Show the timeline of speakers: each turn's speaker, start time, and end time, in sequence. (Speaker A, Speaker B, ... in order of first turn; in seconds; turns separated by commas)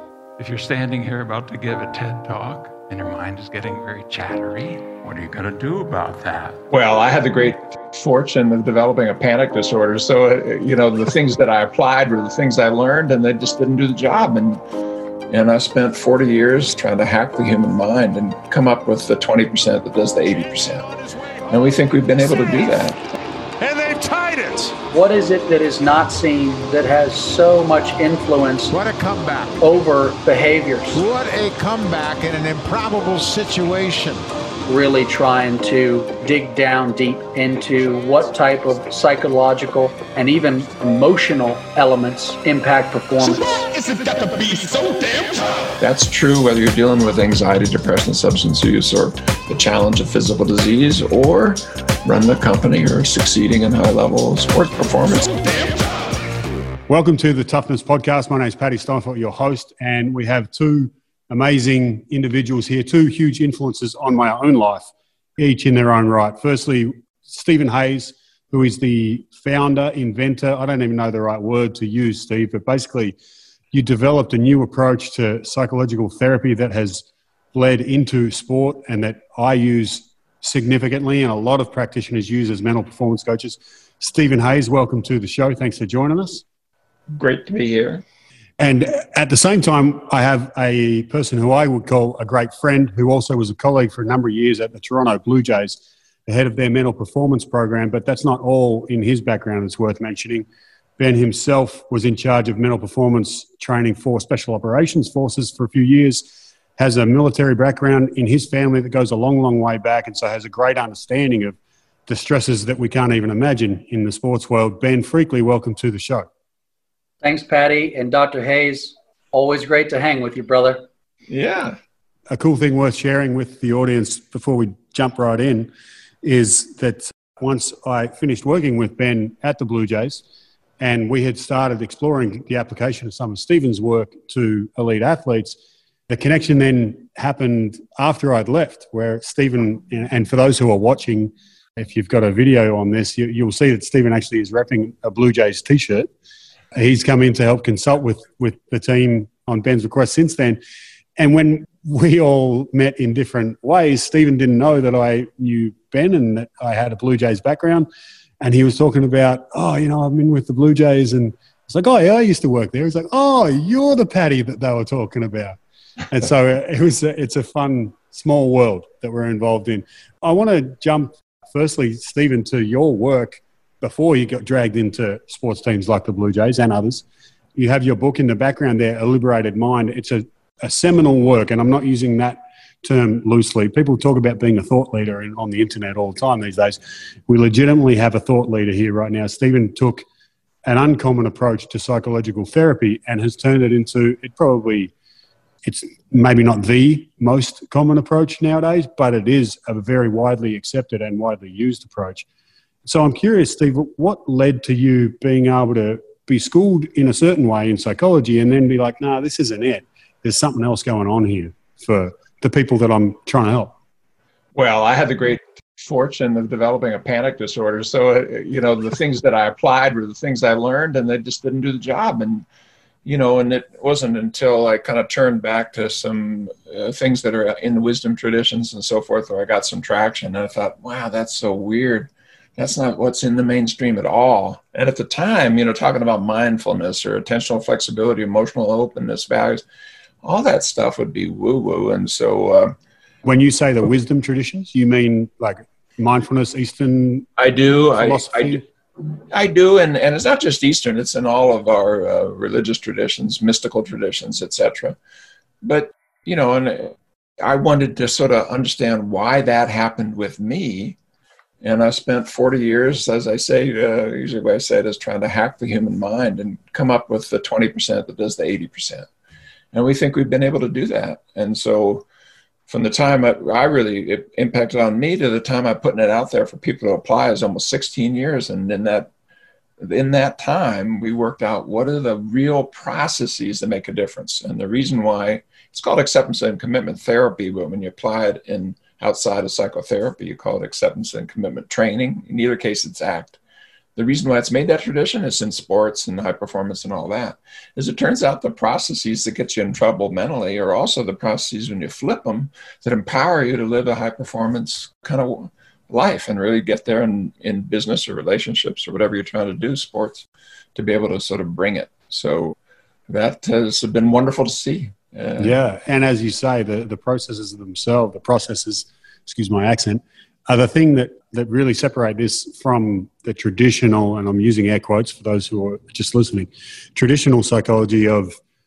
Speaker A: 0.4-6.6, Speaker B: 6.7-14.6, Speaker B: 15.3-20.9, Speaker B: 21.5-23.0, Speaker C: 23.6-24.8, Speaker D: 24.9-28.7, Speaker C: 28.7-29.6, Speaker D: 29.6-31.0, Speaker C: 30.9-34.2, Speaker D: 34.7-43.5, Speaker A: 43.2-45.7, Speaker B: 45.8-55.6, Speaker E: 56.9-73.2, Speaker E: 73.7-86.4, Speaker B: 87.1-88.0, Speaker E: 88.6-100.5, Speaker E: 101.0-116.3, Speaker D: 117.2-120.8, Speaker B: 121.3-121.8, Speaker E: 122.3-125.7, Speaker E: 126.2-130.2, Speaker E: 130.8-135.6, Speaker E: 136.1-146.1, Speaker E: 146.7-150.6, Speaker E: 151.2-157.9, Speaker E: 158.4-165.6, Speaker E: 166.1-177.0, Speaker E: 177.6-190.1, Speaker E: 190.7-194.9, Speaker E: 195.6-202.3, Speaker E: 202.8-213.7, Speaker B: 214.6-222.5, Speaker B: 223.1-239.6, Speaker B: 240.2-242.8, Speaker E: 243.2-247.3, Speaker B: 247.4-248.6, Speaker E: 247.9-248.6, Speaker B: 249.3-255.0, Speaker B: 255.6-261.0, Speaker B: 261.6-269.1, Speaker B: 269.7-272.1, Speaker B: 272.7-279.1, Speaker B: 279.8-293.4, Speaker B: 294.0-312.6, Speaker B: 313.1-315.6, Speaker E: 315.4-328.4